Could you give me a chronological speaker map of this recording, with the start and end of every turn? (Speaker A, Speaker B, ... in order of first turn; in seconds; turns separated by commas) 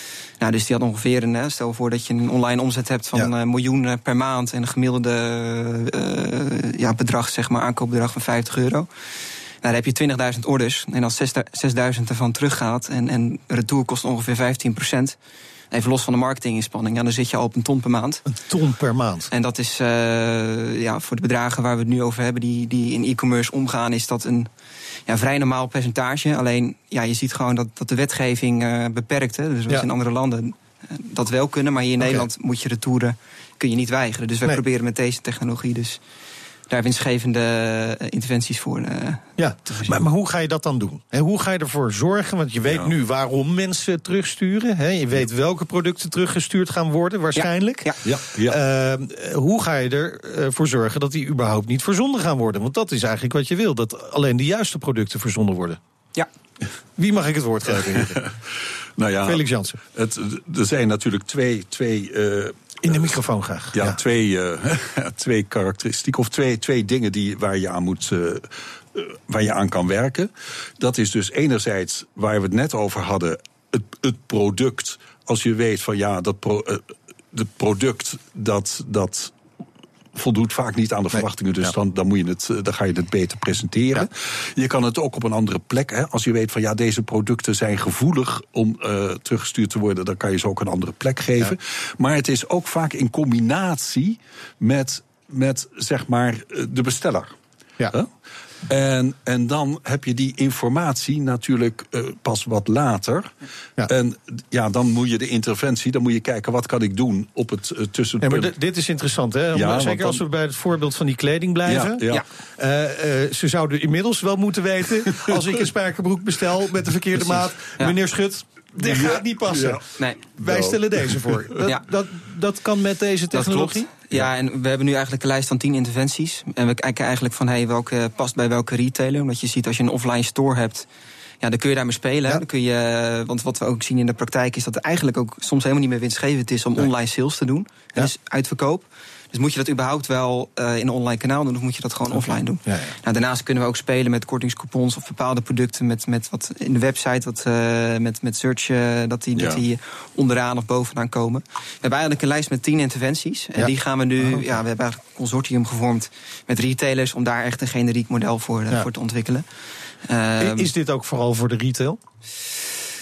Speaker A: 0.4-8.9, Speaker A: 9.6-15.2, Speaker A: 15.7-18.2, Speaker B: 18.3-19.3, Speaker A: 19.3-24.5, Speaker A: 25.1-36.0, Speaker B: 32.0-32.2, Speaker A: 36.7-40.0, Speaker B: 39.4-55.8, Speaker A: 47.4-48.0, Speaker C: 48.0-48.6, Speaker B: 57.0-58.2, Speaker C: 58.0-63.0, Speaker B: 59.2-59.8, Speaker B: 62.8-64.0, Speaker C: 63.7-79.3, Speaker C: 80.2-97.3, Speaker B: 81.2-81.7, Speaker C: 98.7-103.3, Speaker C: 103.8-108.5, Speaker B: 108.2-112.0, Speaker C: 109.5-110.2, Speaker C: 111.7-112.2, Speaker B: 112.6-119.8, Speaker C: 118.8-121.5, Speaker B: 120.4-123.9, Speaker A: 123.3-130.9, Speaker A: 131.4-159.4, Speaker B: 142.1-142.9, Speaker C: 149.4-149.6, Speaker B: 153.6-154.6, Speaker A: 160.0-160.7, Speaker B: 160.4-162.0